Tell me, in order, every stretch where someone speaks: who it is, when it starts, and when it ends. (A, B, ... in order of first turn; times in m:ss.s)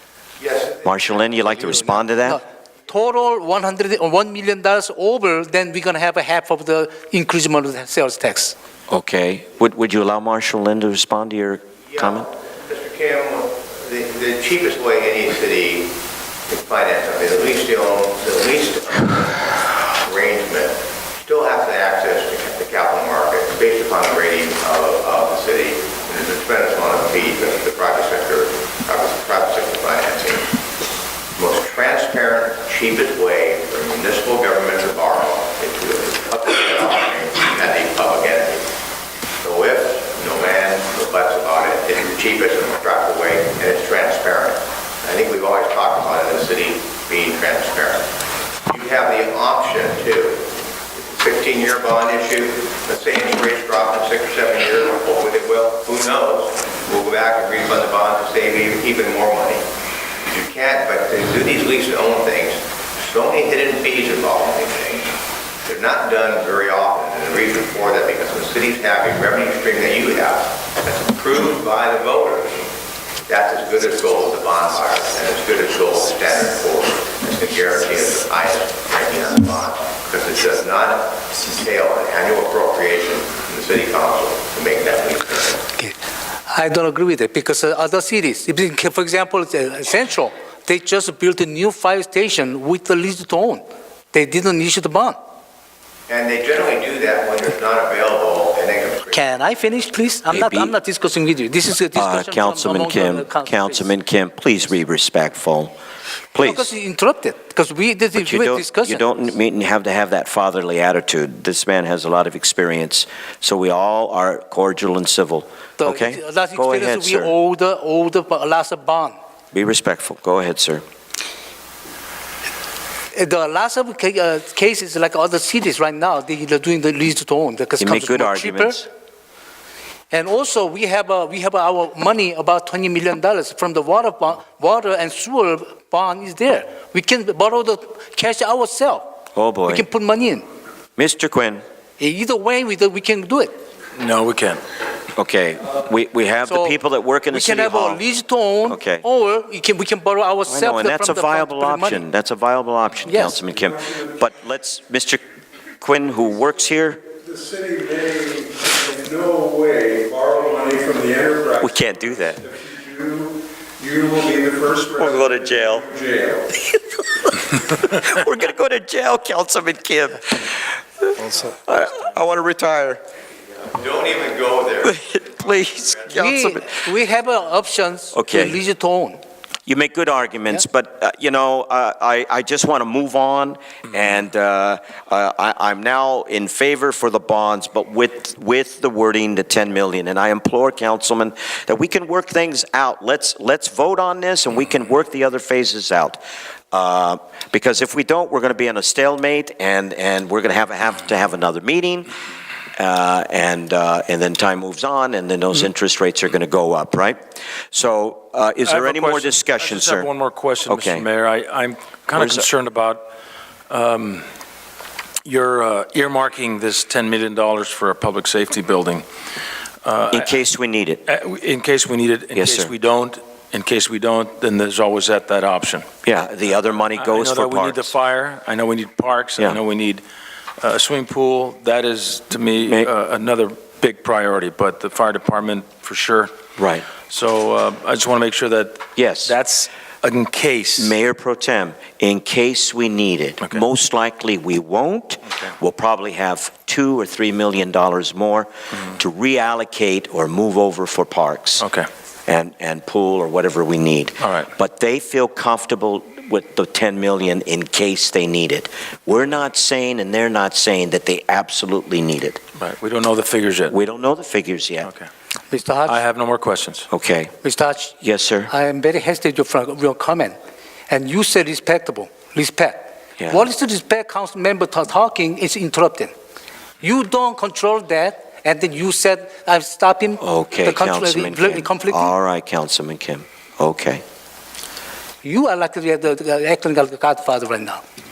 0:00.4-0:01.9 A
0:00.8-0:02.4 B
0:02.2-0:08.5 C
0:08.9-0:12.3 B
0:11.9-0:15.9 A
0:16.5-0:30.5 A
0:31.4-0:38.6 A
0:39.4-0:48.1 A
0:48.7-0:50.4 A
0:50.9-0:59.6 A
1:00.3-1:05.1 A
1:05.6-1:12.6 A
1:13.3-1:25.6 A
1:26.5-1:35.2 C
1:36.1-1:39.2 A
1:39.1-1:43.9 C
1:40.3-1:40.7 B
1:41.9-1:45.7 B
1:46.3-1:46.7 B
1:46.4-1:49.0 C
1:48.2-1:57.3 B
1:55.8-1:59.2 C
1:59.5-2:00.8 B
2:03.1-2:08.8 C
2:07.8-2:08.9 B
2:10.1-2:19.0 C
2:19.3-2:19.8 B
2:19.7-2:20.4 C
2:21.0-2:21.6 B
2:22.0-2:23.5 C
2:23.9-2:24.6 D
2:25.2-2:28.0 B
2:26.5-2:26.8 C
2:27.3-2:32.0 C
2:28.7-2:29.0 B
2:30.5-2:35.2 B
2:33.0-2:33.4 C
2:33.5-2:34.1 E
2:35.8-2:37.0 B
2:37.2-2:46.5 E
2:41.6-2:42.4 B
2:45.0-2:45.9 B
2:47.5-2:53.0 B
2:53.7-2:56.3 A
2:54.8-2:56.7 B
2:56.1-2:59.2 C
2:58.1-2:58.6 B
2:59.7-3:16.2 B
3:16.7-3:22.1 B
3:22.8-3:27.2 B
3:27.7-3:30.1 B
3:28.6-3:33.0 D
3:30.7-3:31.0 B
3:32.1-3:32.5 B
3:33.7-3:34.2 D
3:35.2-3:39.0 D
3:39.8-3:40.3 D
3:40.1-3:41.0 B
3:41.1-3:45.9 D
3:42.3-3:42.7 B
3:46.0-3:47.9 B
3:47.0-3:50.0 D
3:50.6-3:56.3 D
3:52.6-3:52.9 B
3:56.6-3:56.9 B
3:57.1-4:00.9 D
3:59.0-3:59.3 B
4:00.8-4:11.6 B
4:11.6-4:11.9 D
4:12.3-4:22.4 B
4:14.2-4:14.5 D
4:22.6-4:23.8 D
4:23.7-4:24.9 B
4:25.5-4:26.0 C
4:25.9-4:26.9 D
4:26.9-4:27.3 B
4:27.4-4:28.0 C
4:28.0-4:28.5 B
4:28.5-4:30.3 C
4:30.9-4:36.1 C
4:33.2-4:33.5 B
4:36.8-4:42.1 C
4:40.2-4:44.0 B
4:45.2-4:47.8 C